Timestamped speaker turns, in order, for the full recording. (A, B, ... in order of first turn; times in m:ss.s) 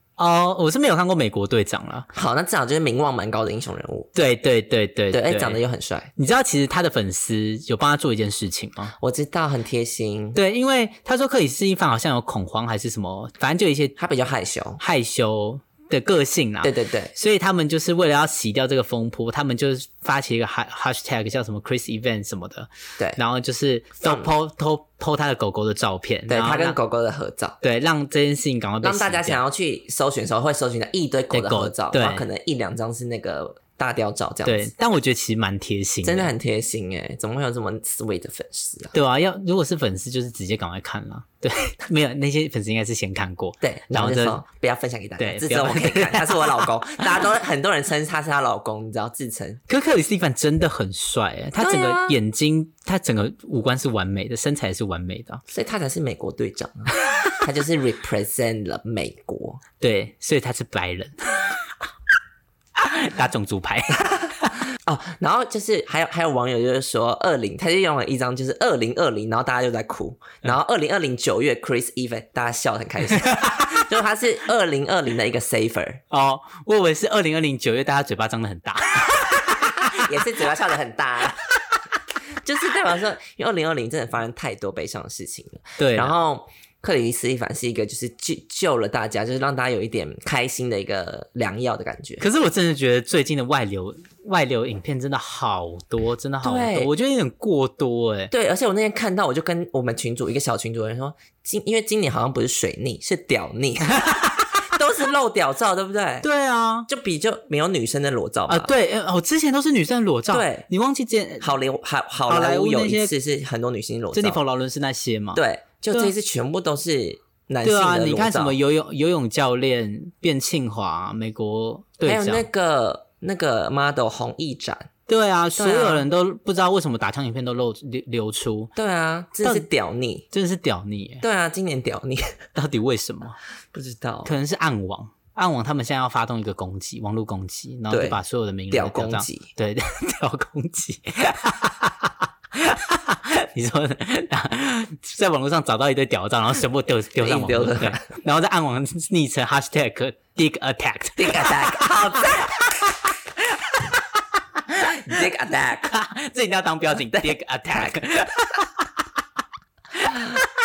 0:00.2-0:02.1 A
0:02.1-0:04.1 B
0:04.1-0:05.6 A
0:05.1-0:06.1 B
0:06.2-0:08.9 A
0:09.0-0:10.4 B
0:10.3-0:14.0 A
0:14.0-0:14.8 B
0:14.8-0:26.8 A
0:16.6-0:17.1 B
0:24.0-0:24.3 B
0:26.3-0:27.6 B
0:27.6-0:29.4 A
0:28.8-0:34.7 B
0:31.3-0:32.2 A
0:34.4-0:36.3 A
0:36.0-0:38.9 B
0:38.9-0:44.4 A
0:43.6-0:49.6 B
0:45.2-0:47.2 A
0:49.7-0:55.4 A
0:51.6-0:52.2 B
0:55.5-0:59.6 B
0:59.8-1:01.6 A
1:02.8-1:04.6 A
1:04.8-1:16.0 B
1:13.2-1:13.7 A
1:16.1-1:19.9 A
1:19.6-1:21.4 B
1:22.4-1:32.2 B
1:25.8-1:26.1 A
1:32.2-1:38.3 A
1:36.4-1:36.9 B
1:38.3-1:44.0 B
1:44.0-1:44.4 A
1:44.7-1:46.3 B
1:46.2-1:46.9 A
1:46.9-1:48.7 B
1:48.5-1:51.5 A
1:50.3-1:50.6 B
1:51.4-1:54.4 B
1:52.3-1:53.1 A
1:54.1-1:56.1 A
1:55.3-1:58.6 B
1:57.6-2:02.5 A
2:02.0-2:04.9 B
2:05.1-2:08.7 A
2:05.6-2:06.0 B
2:08.8-2:10.3 B
2:09.4-2:09.7 A
2:10.3-2:11.2 A
2:11.2-2:12.4 B
2:12.5-2:13.4 A
2:13.7-2:14.3 B
2:14.2-2:32.3 A
2:17.9-2:19.5 B
2:27.2-2:28.1 B
2:31.2-2:32.6 B
2:35.0-2:35.9 B
2:35.9-2:38.8 A
2:36.9-2:38.0 B